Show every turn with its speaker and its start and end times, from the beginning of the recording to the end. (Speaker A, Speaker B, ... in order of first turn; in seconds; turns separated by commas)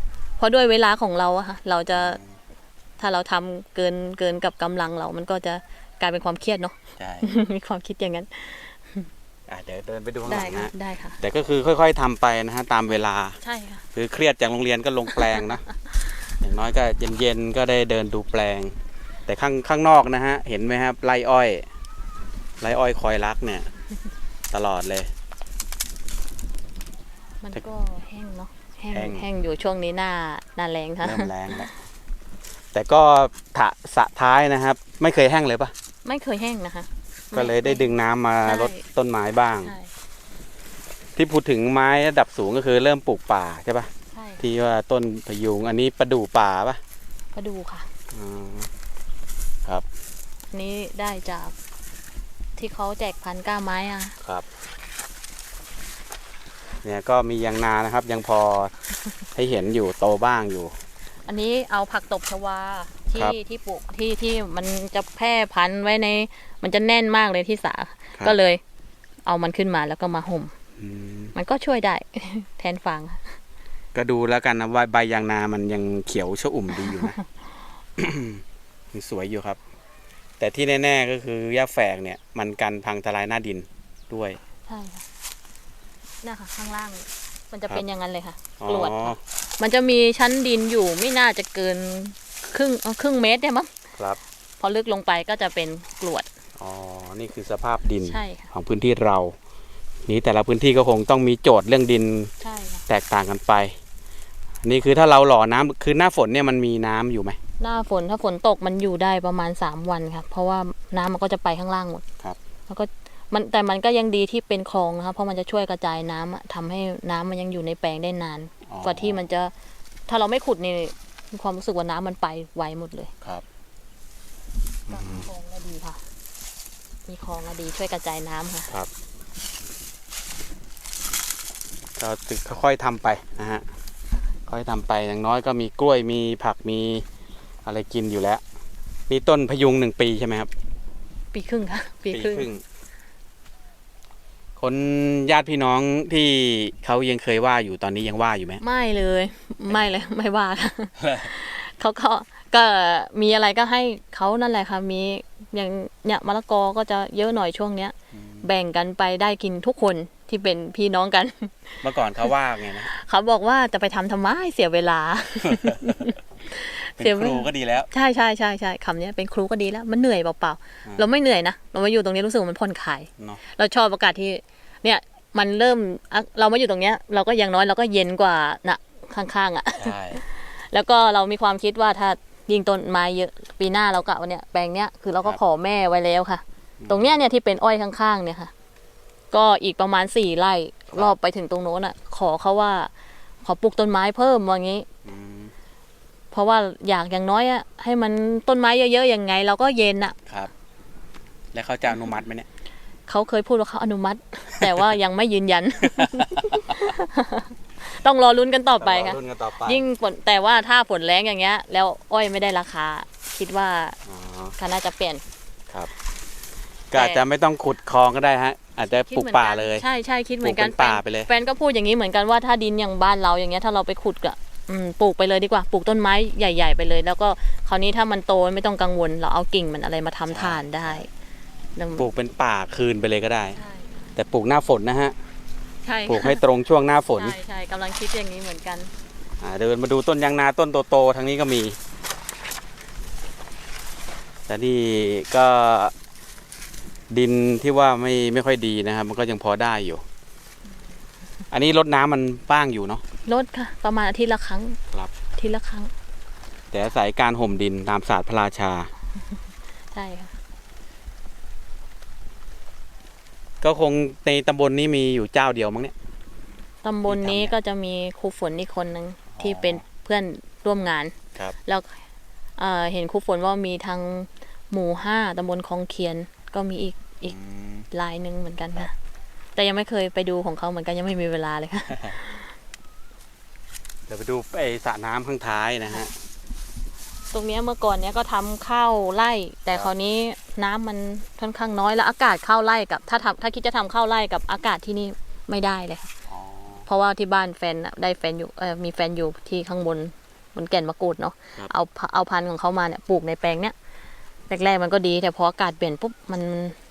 Speaker A: 0.4-2.2, Speaker B: 1.9-2.3, Speaker A: 3.0-9.1, Speaker B: 7.0-7.3, Speaker B: 9.5-13.4, Speaker A: 10.2-11.2, Speaker A: 13.4-13.8, Speaker B: 13.9-15.6, Speaker B: 16.4-18.7, Speaker B: 19.3-21.6, Speaker B: 22.6-23.7, Speaker B: 24.5-25.1, Speaker A: 27.4-31.7, Speaker B: 28.9-29.2, Speaker B: 31.0-31.7, Speaker B: 32.7-35.7, Speaker A: 36.0-37.9, Speaker B: 37.3-39.7, Speaker A: 38.4-38.8, Speaker A: 39.6-39.9, Speaker B: 41.1-43.9, Speaker A: 44.1-44.4, Speaker B: 44.4-46.8, Speaker A: 47.3-47.9, Speaker B: 48.1-48.7, Speaker A: 50.5-51.5, Speaker A: 52.6-54.1, Speaker B: 54.2-54.5, Speaker B: 56.8-58.7, Speaker B: 59.3-60.7, Speaker A: 61.2-68.6, Speaker A: 69.2-70.5, Speaker B: 70.8-71.3, Speaker A: 71.3-73.3, Speaker B: 73.9-77.2, Speaker A: 76.9-77.2, Speaker B: 78.0-79.6, Speaker B: 80.4-84.4, Speaker A: 84.7-85.0, Speaker A: 86.2-93.7, Speaker B: 88.6-89.2, Speaker A: 94.6-96.2, Speaker B: 96.6-99.3, Speaker A: 98.0-98.5, Speaker B: 100.0-102.3, Speaker A: 102.4-102.8, Speaker B: 102.9-103.8, Speaker B: 104.6-107.4, Speaker A: 107.6-112.0, Speaker A: 112.7-119.5, Speaker B: 118.6-119.2, Speaker A: 120.1-123.1, Speaker B: 124.9-125.3, Speaker A: 124.9-126.0, Speaker A: 127.1-128.7, Speaker B: 132.0-133.6, Speaker B: 134.5-137.0, Speaker B: 137.6-138.4, Speaker B: 139.1-140.5, Speaker A: 141.3-142.5, Speaker B: 142.1-142.6, Speaker B: 144.6-148.6, Speaker A: 148.6-161.8, Speaker B: 149.7-149.9, Speaker B: 151.0-151.3, Speaker B: 158.1-158.5, Speaker B: 161.8-162.9, Speaker A: 162.9-188.5, Speaker B: 165.4-166.0, Speaker B: 167.0-167.9, Speaker B: 179.8-180.2, Speaker B: 186.8-187.2, Speaker A: 189.3-192.9, Speaker A: 193.4-194.8, Speaker B: 195.0-195.5, Speaker A: 196.3-200.2, Speaker B: 201.5-202.5, Speaker A: 203.1-214.0, Speaker B: 205.8-206.9, Speaker B: 208.8-209.8, Speaker B: 214.1-214.5, Speaker A: 214.6-215.2, Speaker B: 216.9-219.8, Speaker A: 216.9-217.2, Speaker A: 218.9-231.1, Speaker B: 220.4-221.3, Speaker B: 230.3-231.1, Speaker A: 231.8-232.1, Speaker B: 232.0-233.6, Speaker A: 233.5-233.9, Speaker B: 234.2-235.2, Speaker A: 235.8-236.4, Speaker B: 236.1-237.3, Speaker A: 237.1-238.9, Speaker B: 239.4-241.8, Speaker B: 244.5-245.9, Speaker B: 247.1-250.0, Speaker B: 251.5-253.0, Speaker A: 253.2-254.8, Speaker A: 255.4-255.9, Speaker B: 256.7-258.9, Speaker A: 259.9-260.3, Speaker B: 263.6-265.9, Speaker A: 266.8-271.1, Speaker B: 267.1-267.5, Speaker B: 269.3-269.8, Speaker A: 271.6-272.0, Speaker A: 272.6-277.4, Speaker B: 277.3-277.9, Speaker A: 277.9-278.9, Speaker A: 279.6-282.5, Speaker B: 284.1-286.1, Speaker A: 287.3-296.1, Speaker B: 296.3-296.9, Speaker A: 296.9-303.7, Speaker A: 304.5-306.8